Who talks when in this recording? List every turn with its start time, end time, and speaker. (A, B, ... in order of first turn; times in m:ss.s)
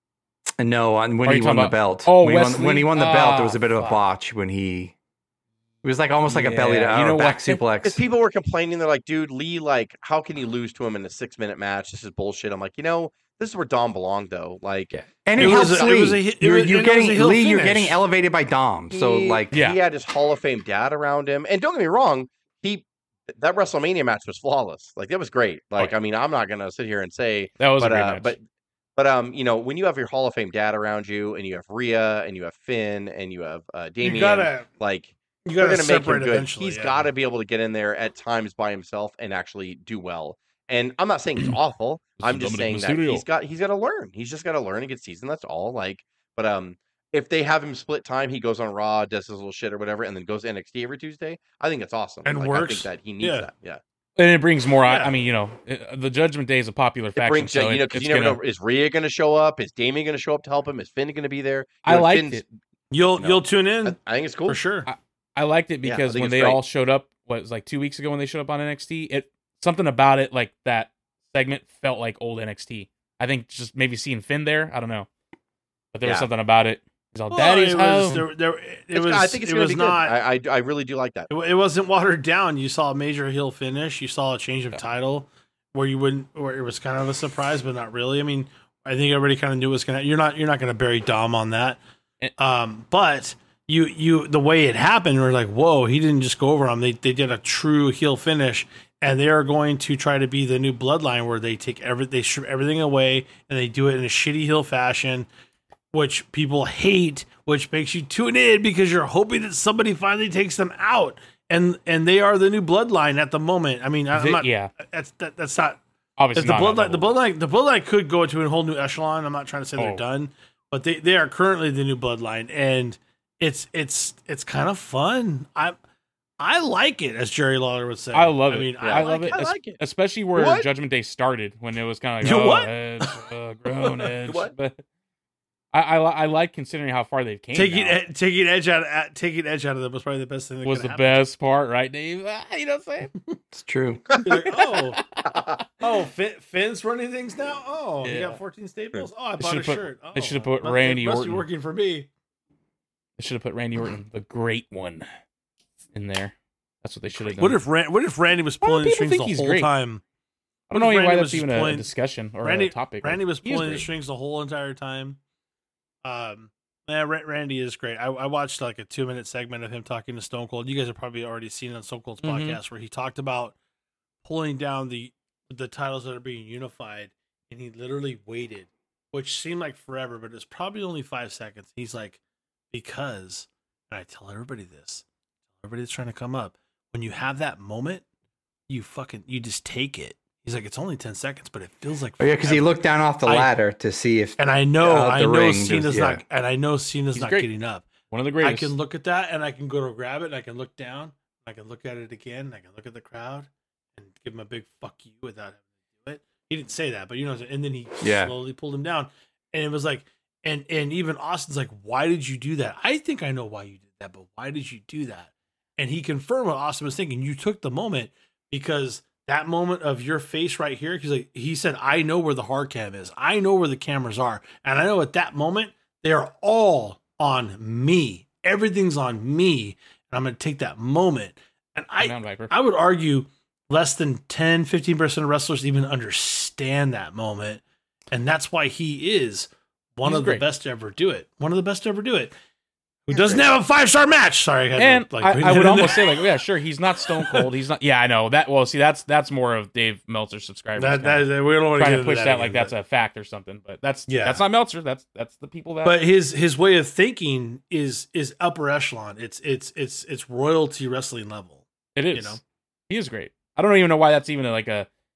0:00.6-0:04.9 A
0:01.2-0:04.0 B
0:05.8-0:08.0 A
0:06.3-0:07.6 B
0:07.8-0:16.2 C
0:15.0-0:19.5 A
0:15.4-0:18.0 D
0:18.9-0:28.4 C
0:19.5-0:19.8 B
0:27.6-0:28.4 B
0:29.0-0:53.8 C
0:34.0-0:34.7 D
0:35.4-0:37.1 D
0:42.2-0:43.2 B
0:52.2-0:53.5 D
0:54.2-0:58.4 B
0:54.9-0:55.2 D
0:57.2-1:02.5 C
1:01.8-1:02.4 B
1:02.9-1:04.9 D
1:03.2-1:04.6 C
1:04.8-1:15.1 B
1:05.8-1:06.6 C
1:15.9-1:18.3 B
1:17.3-1:20.2 D
1:18.9-1:21.3 C
1:21.3-1:31.8 D
1:32.4-1:45.3 D
1:45.9-1:55.8 D
1:54.1-1:54.7 B
1:56.2-1:57.1 B
1:56.4-2:05.8 D
1:59.8-2:00.0 B
2:06.4-2:09.5 D
2:08.1-2:14.8 B
2:08.8-2:09.8 C
2:10.4-2:10.7 C
2:12.2-2:14.1 D
2:14.3-2:14.5 C
2:15.7-2:18.0 B
2:17.5-2:21.2 D
2:20.6-2:23.1 B
2:23.5-2:24.1 A
2:24.2-2:25.0 D
2:24.5-2:25.3 B
2:25.3-2:25.6 C
2:25.8-2:32.1 D
2:28.0-2:28.4 B
2:29.4-2:31.4 B
2:33.2-2:35.1 B
2:36.0-2:37.6 B
2:37.3-2:40.0 D
2:38.6-2:39.7 B
2:40.7-2:43.9 B
2:40.7-2:41.9 D
2:42.4-2:45.2 D
2:46.0-2:53.6 D
2:52.2-2:52.6 B
2:54.2-3:02.2 D
3:02.7-3:05.0 D
3:05.6-3:08.0 D
3:08.7-3:13.5 D
3:12.2-3:16.2 A
3:14.4-4:02.3 D
3:17.1-3:17.5 B
3:18.1-3:18.7 B
3:28.0-3:28.3 A
3:52.0-3:52.5 B
4:00.0-4:00.4 B
4:03.1-4:06.2 D
4:03.1-4:03.4 C
4:04.8-4:16.0 B
4:07.2-4:07.5 D
4:10.8-4:12.7 D
4:14.1-4:14.4 D
4:15.8-4:22.4 D
4:22.0-4:24.9 B